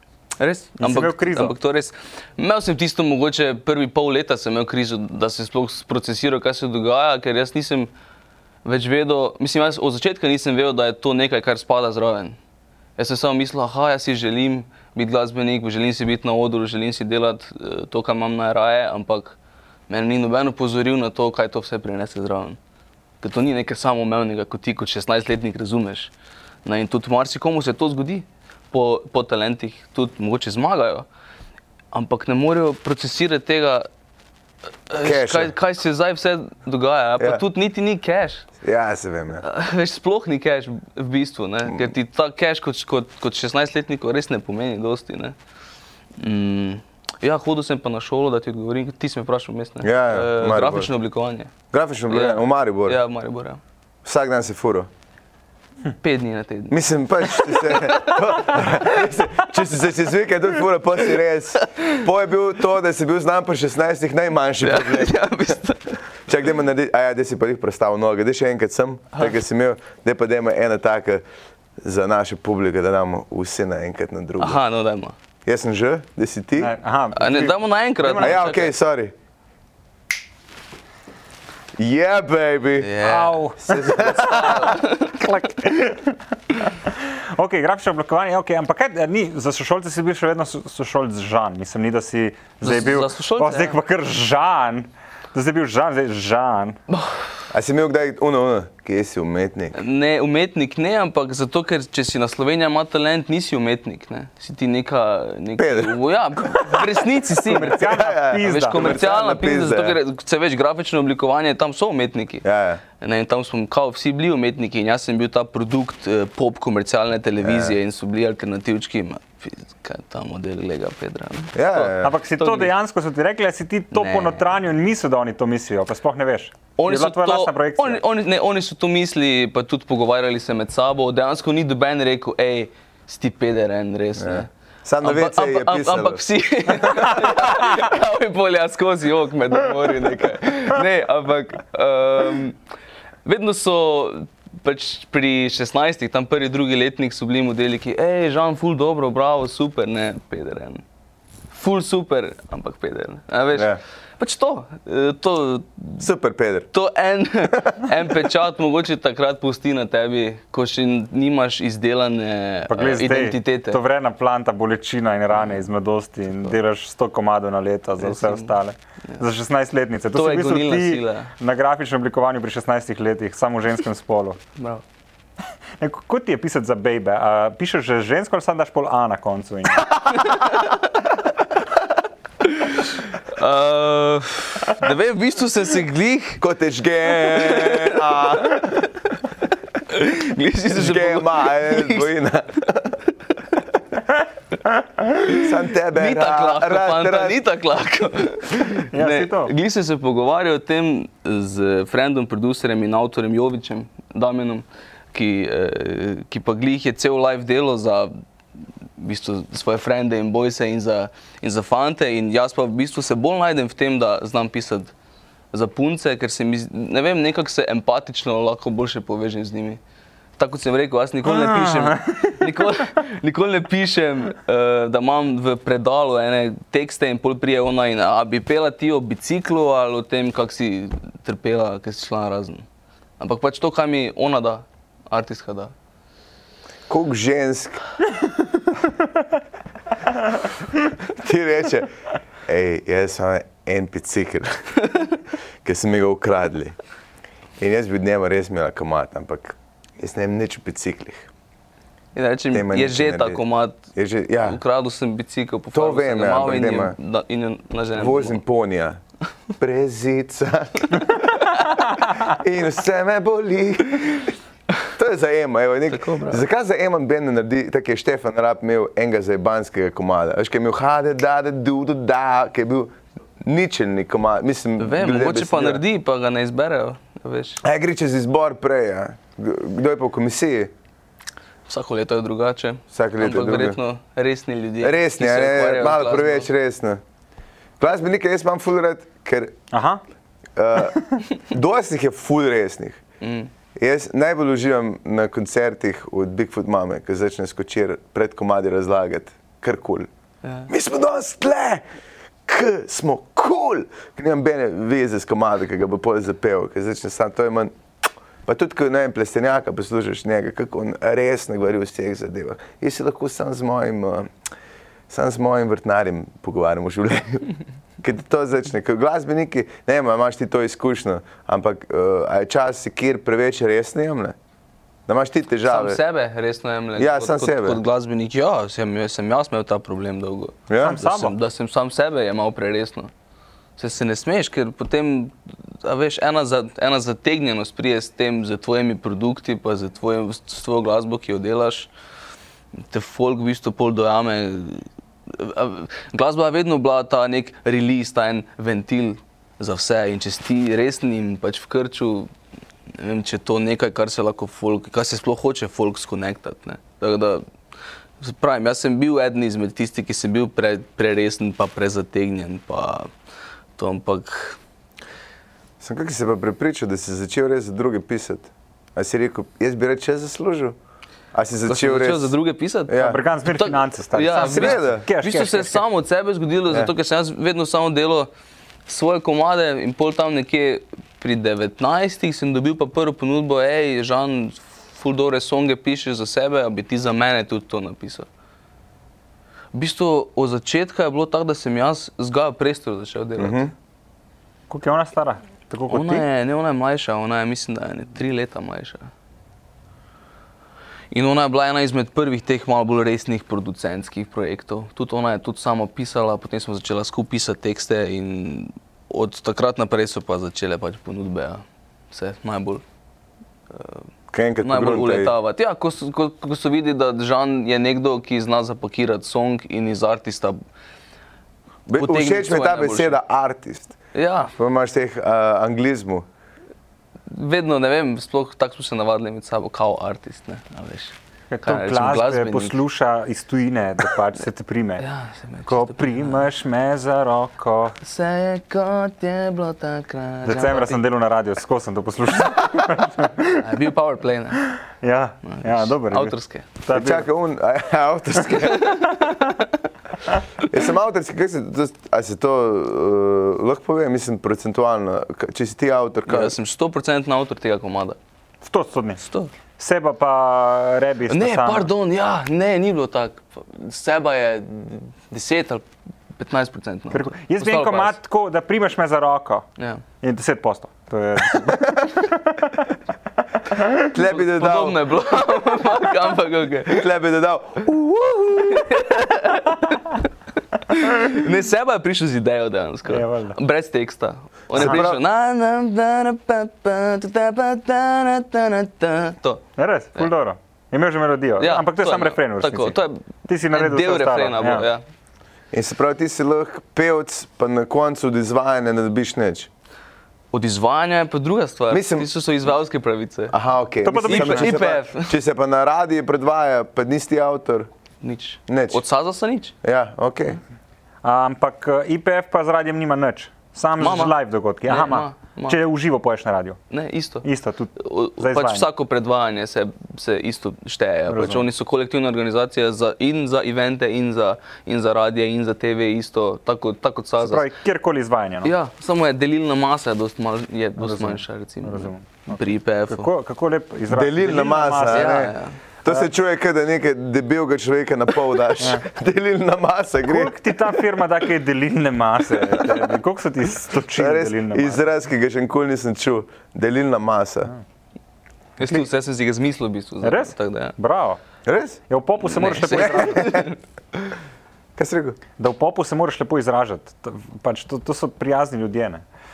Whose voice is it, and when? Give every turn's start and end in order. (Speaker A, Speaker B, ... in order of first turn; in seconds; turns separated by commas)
Speaker A: 0.4-7.9, Speaker B: 0.8-1.5, Speaker A: 8.6-12.4, Speaker A: 13.0-19.4, Speaker A: 19.9-22.6, Speaker A: 23.2-26.1, Speaker A: 26.6-31.1, Speaker A: 31.9-33.9, Speaker A: 34.9-38.5, Speaker C: 35.0-35.5, Speaker C: 38.6-39.4, Speaker A: 39.4-45.4, Speaker A: 46.2-51.5, Speaker C: 49.8-50.9, Speaker C: 51.7-53.0, Speaker A: 52.1-53.6, Speaker C: 54.0-54.9, Speaker A: 55.9-58.6, Speaker C: 56.7-65.6, Speaker A: 61.6-62.0, Speaker A: 64.6-65.8, Speaker C: 66.3-71.2, Speaker C: 71.8-74.6, Speaker A: 74.4-75.1, Speaker C: 75.5-76.7, Speaker B: 76.6-78.3, Speaker A: 77.1-78.7, Speaker C: 78.1-79.1, Speaker C: 81.8-82.9, Speaker A: 82.8-85.2, Speaker B: 83.0-96.8, Speaker C: 83.6-84.8, Speaker A: 92.6-93.8, Speaker A: 96.9-97.3, Speaker C: 97.5-99.8, Speaker A: 99.7-112.4, Speaker C: 105.6-106.9, Speaker B: 107.4-108.8, Speaker C: 107.6-110.0, Speaker C: 112.4-112.8, Speaker A: 113.0-122.7, Speaker C: 117.4-117.7, Speaker C: 121.5-122.1, Speaker B: 122.0-128.0, Speaker A: 123.9-124.4, Speaker A: 126.8-134.5, Speaker C: 134.2-137.5, Speaker A: 135.0-142.6, Speaker A: 143.2-150.8, Speaker A: 151.5-156.0, Speaker C: 153.5-153.8, Speaker C: 156.0-156.7, Speaker A: 156.7-163.8, Speaker B: 162.7-174.4, Speaker A: 168.0-168.5, Speaker A: 170.1-171.3, Speaker B: 175.8-179.9, Speaker A: 180.3-180.6, Speaker A: 182.4-186.4, Speaker C: 186.4-188.9, Speaker A: 187.1-188.6, Speaker A: 189.8-192.1, Speaker C: 190.7-193.0, Speaker A: 195.3-208.1, Speaker C: 195.3-197.4, Speaker B: 198.9-199.5, Speaker A: 209.0-214.9, Speaker A: 215.5-219.8, Speaker A: 220.4-232.7, Speaker B: 221.2-222.7, Speaker A: 233.2-235.7, Speaker C: 236.9-237.8, Speaker C: 241.1-241.9, Speaker C: 242.5-244.9, Speaker C: 245.6-246.8, Speaker C: 247.6-251.3, Speaker A: 252.1-253.9, Speaker C: 252.5-253.4, Speaker C: 253.9-254.6, Speaker A: 254.4-258.4, Speaker C: 255.7-256.9, Speaker C: 257.9-259.0, Speaker C: 259.6-264.3, Speaker C: 264.9-275.8, Speaker A: 265.9-266.4, Speaker A: 274.8-277.6, Speaker C: 277.6-280.7, Speaker A: 281.7-286.5, Speaker C: 282.9-283.8, Speaker C: 284.8-287.0, Speaker C: 287.8-289.6, Speaker B: 289.7-290.0, Speaker C: 290.6-293.0, Speaker A: 293.2-293.5, Speaker C: 293.8-300.1, Speaker A: 300.4-300.7, Speaker C: 300.7-301.8, Speaker C: 302.4-307.7, Speaker C: 308.4-314.3, Speaker C: 315.1-324.3, Speaker C: 325.1-326.0, Speaker A: 325.6-333.1, Speaker C: 327.0-327.8, Speaker C: 330.7-331.0, Speaker B: 330.8-331.4, Speaker A: 333.8-341.9, Speaker A: 342.9-352.3, Speaker A: 352.9-357.4, Speaker A: 358.2-363.1, Speaker A: 363.8-364.6, Speaker C: 365.8-370.8, Speaker C: 371.3-372.3, Speaker A: 371.6-378.3, Speaker C: 372.9-373.2, Speaker B: 372.9-375.8, Speaker C: 374.3-375.1, Speaker A: 378.9-388.3, Speaker A: 389.7-393.7, Speaker C: 393.4-393.7, Speaker B: 394.7-396.2, Speaker A: 395.9-399.1, Speaker A: 401.1-412.8, Speaker A: 413.7-414.1, Speaker C: 414.3-415.3, Speaker A: 414.6-420.6, Speaker C: 421.9-423.9, Speaker A: 422.0-423.2, Speaker A: 424.1-424.5, Speaker C: 424.5-426.2, Speaker A: 427.3-432.8, Speaker B: 431.5-435.1, Speaker A: 435.0-436.5, Speaker B: 435.7-437.9, Speaker A: 438.0-441.0, Speaker B: 440.4-443.7, Speaker A: 443.6-444.7, Speaker B: 444.7-447.3, Speaker A: 445.4-446.7, Speaker C: 446.9-449.3, Speaker A: 448.7-449.7, Speaker C: 450.6-456.5, Speaker A: 456.3-458.2, Speaker B: 458.6-459.2, Speaker A: 459.2-459.5, Speaker B: 459.8-461.9, Speaker A: 461.3-468.2, Speaker B: 467.1-469.6, Speaker A: 469.8-470.0, Speaker B: 470.2-472.7, Speaker B: 473.7-474.1, Speaker C: 474.1-475.0, Speaker A: 474.2-477.0, Speaker C: 476.9-479.0, Speaker A: 478.6-480.3, Speaker A: 480.8-489.6, Speaker B: 483.1-483.6, Speaker C: 484.7-485.2, Speaker B: 484.8-485.0, Speaker B: 489.8-494.9, Speaker A: 491.6-495.0, Speaker C: 495.7-499.7, Speaker A: 500.5-503.5, Speaker C: 501.9-502.3, Speaker C: 503.5-507.9, Speaker B: 504.0-504.8, Speaker A: 504.2-505.3, Speaker A: 508.2-509.7, Speaker C: 508.7-509.0, Speaker C: 509.8-510.6, Speaker B: 511.2-516.8, Speaker A: 514.0-514.3, Speaker A: 514.9-515.8, Speaker A: 516.9-527.7, Speaker B: 517.4-518.9, Speaker B: 521.3-521.7, Speaker B: 527.4-528.7, Speaker A: 528.6-533.3, Speaker B: 531.0-535.5, Speaker C: 534.1-535.5, Speaker A: 535.1-535.8, Speaker C: 536.0-540.6, Speaker B: 538.8-539.0, Speaker B: 540.2-545.0, Speaker C: 544.1-547.7, Speaker A: 548.8-551.0, Speaker B: 550.2-551.4, Speaker C: 551.6-552.0, Speaker B: 552.1-553.7, Speaker A: 552.5-553.8, Speaker C: 552.9-553.6, Speaker C: 555.0-555.4, Speaker B: 555.6-559.2